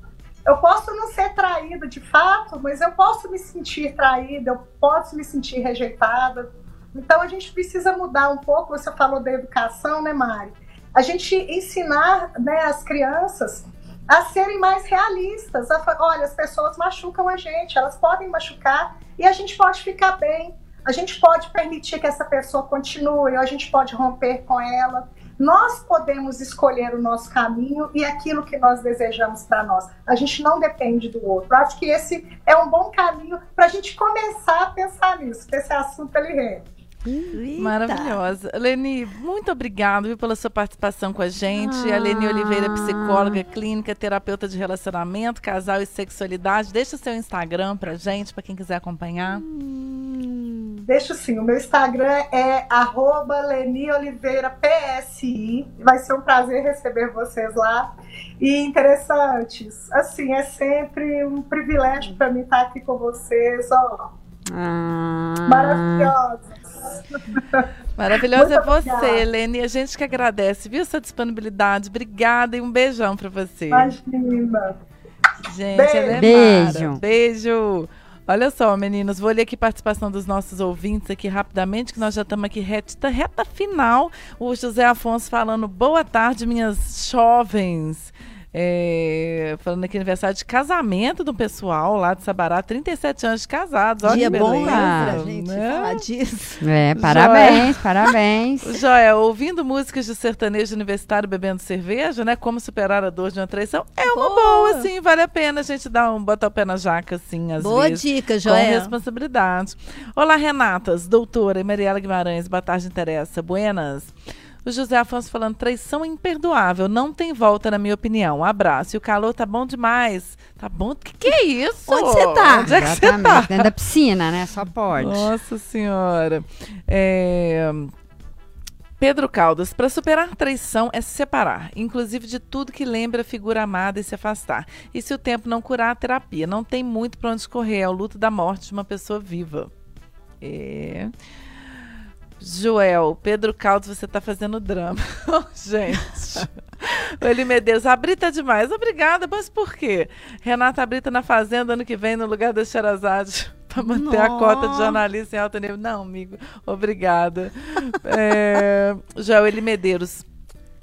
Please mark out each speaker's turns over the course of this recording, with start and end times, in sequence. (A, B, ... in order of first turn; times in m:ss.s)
0:00.4-0:36.6 A
0:37.0-0:37.4 B
0:37.3-0:38.2 C
0:37.6-0:49.4 D
0:41.5-0:43.4 B
0:50.8-0:57.9 A
0:58.4-1:04.1 A
1:04.5-1:06.1 B
1:05.5-1:07.7 A
1:08.0-1:13.9 D
1:08.3-1:09.2 A
1:13.7-1:14.7 A
1:15.5-1:36.0 D
1:15.7-1:16.4 A
1:16.1-1:17.0 B
1:34.0-1:36.6 C
1:34.0-1:35.2 B
1:36.6-1:38.8 B
1:37.0-1:37.8 D
1:38.6-1:54.1 D
1:44.1-1:44.9 C
1:47.6-1:49.0 C
1:54.6-2:03.7 D
2:01.9-2:02.9 C
2:02.6-2:05.3 B
2:04.9-2:07.9 D
2:09.0-2:19.7 D
2:20.4-2:21.1 D
2:22.4-2:40.2 D
2:33.8-2:35.0 C